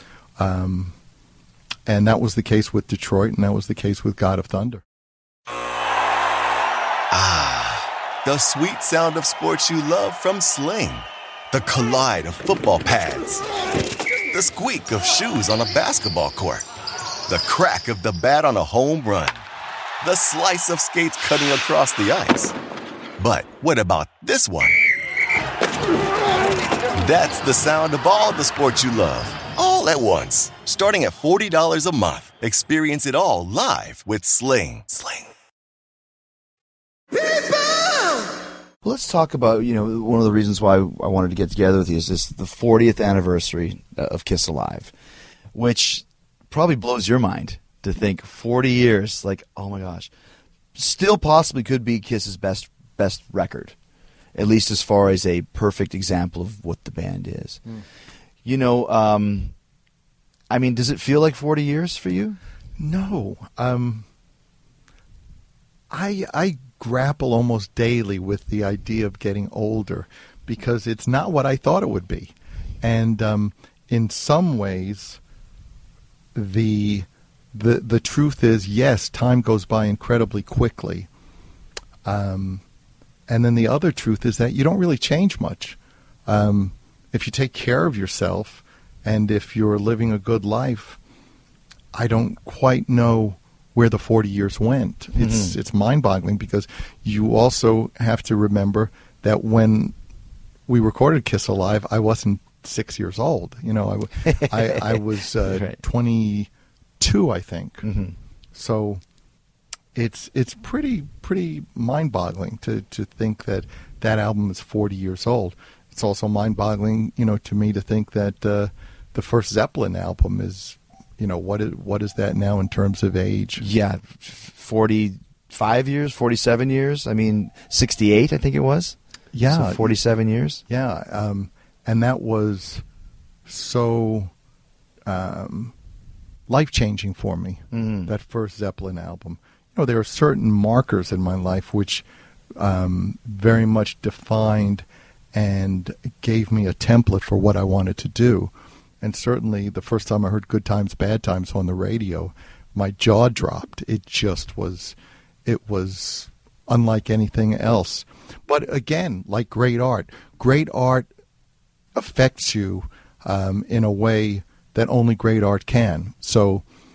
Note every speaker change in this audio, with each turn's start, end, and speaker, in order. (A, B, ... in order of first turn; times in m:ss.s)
0:00.4-0:01.0 A
0:01.9-0:04.8 A
0:07.1-0:13.4 B
0:14.3-0:16.6 B
0:17.3-0:19.4 B
0:20.0-0:22.6 B
0:23.2-0:24.8 B
0:26.9-0:35.3 B
0:38.8-0:44.9 C
0:45.6-0:50.1 C
0:50.8-0:53.7 C
0:54.4-0:57.6 C
0:58.4-0:59.5 C
1:00.5-1:02.4 C
1:02.8-1:04.1 A
1:05.9-1:15.2 A
1:16.4-1:21.1 A
1:22.0-1:22.6 A
1:23.3-1:31.0 A
1:31.9-1:40.0 A
1:35.2-1:35.6 C
1:40.7-1:47.8 A
1:44.3-1:45.8 C
1:47.8-1:48.2 C
1:48.5-1:49.0 A
1:50.0-2:03.6 A
2:03.6-2:09.0 C
2:09.3-2:10.0 A
2:09.5-2:10.6 C
2:10.7-2:12.8 A
2:13.5-2:14.3 A
2:15.1-2:15.8 A
2:16.5-2:22.1 A
2:17.7-2:18.1 C
2:22.6-2:41.1 A
2:42.0-2:46.6 A